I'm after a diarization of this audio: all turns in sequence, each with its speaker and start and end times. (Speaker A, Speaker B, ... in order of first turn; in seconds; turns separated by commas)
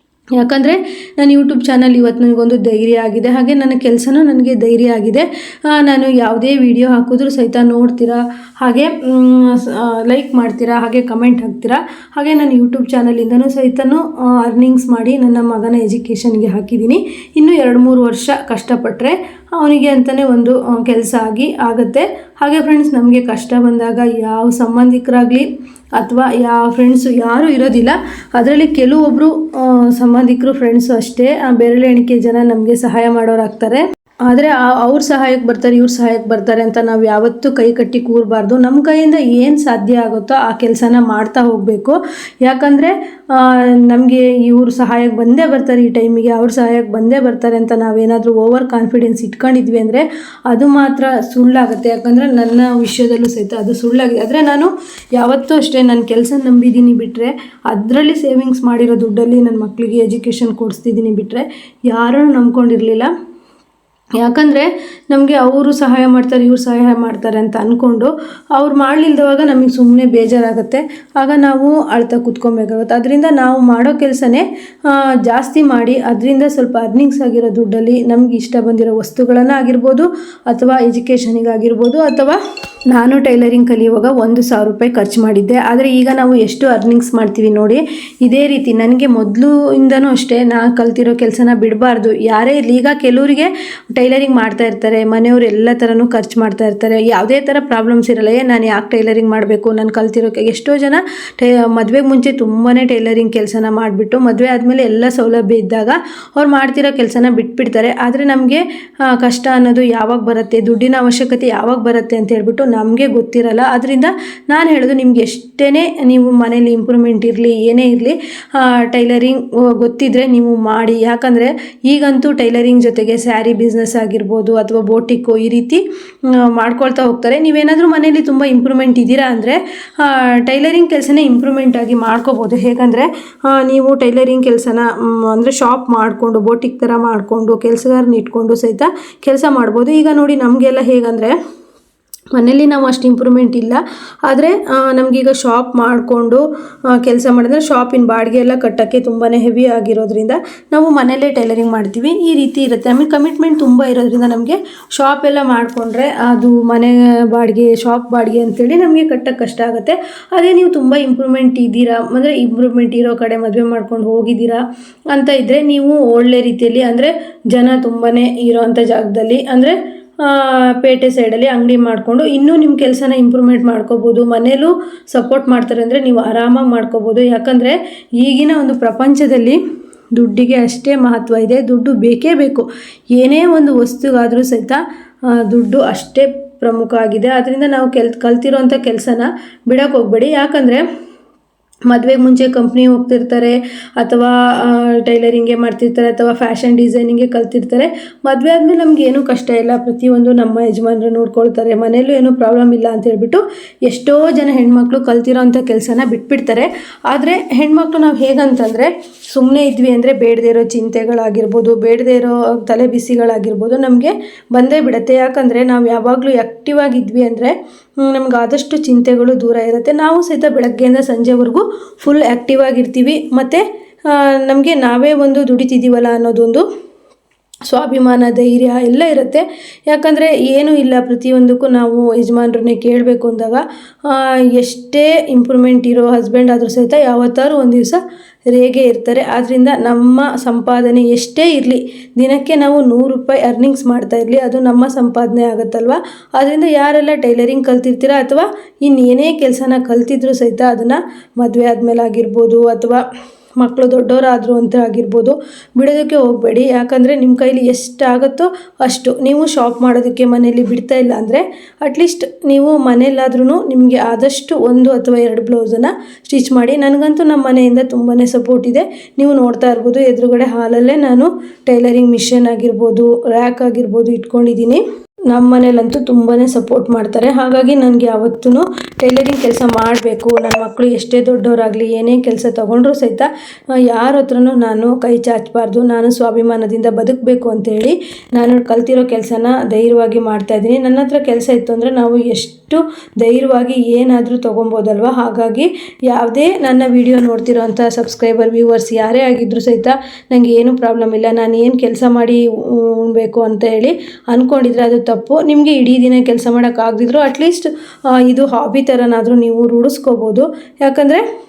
Speaker A: 0.4-63.1, Speaker A: 64.2-82.4, Speaker A: 82.9-141.3, Speaker A: 142.3-179.6, Speaker A: 180.1-184.8, Speaker A: 185.3-190.8, Speaker A: 191.9-226.6, Speaker A: 227.7-238.0, Speaker A: 238.5-253.0, Speaker A: 253.6-307.7, Speaker A: 308.2-311.2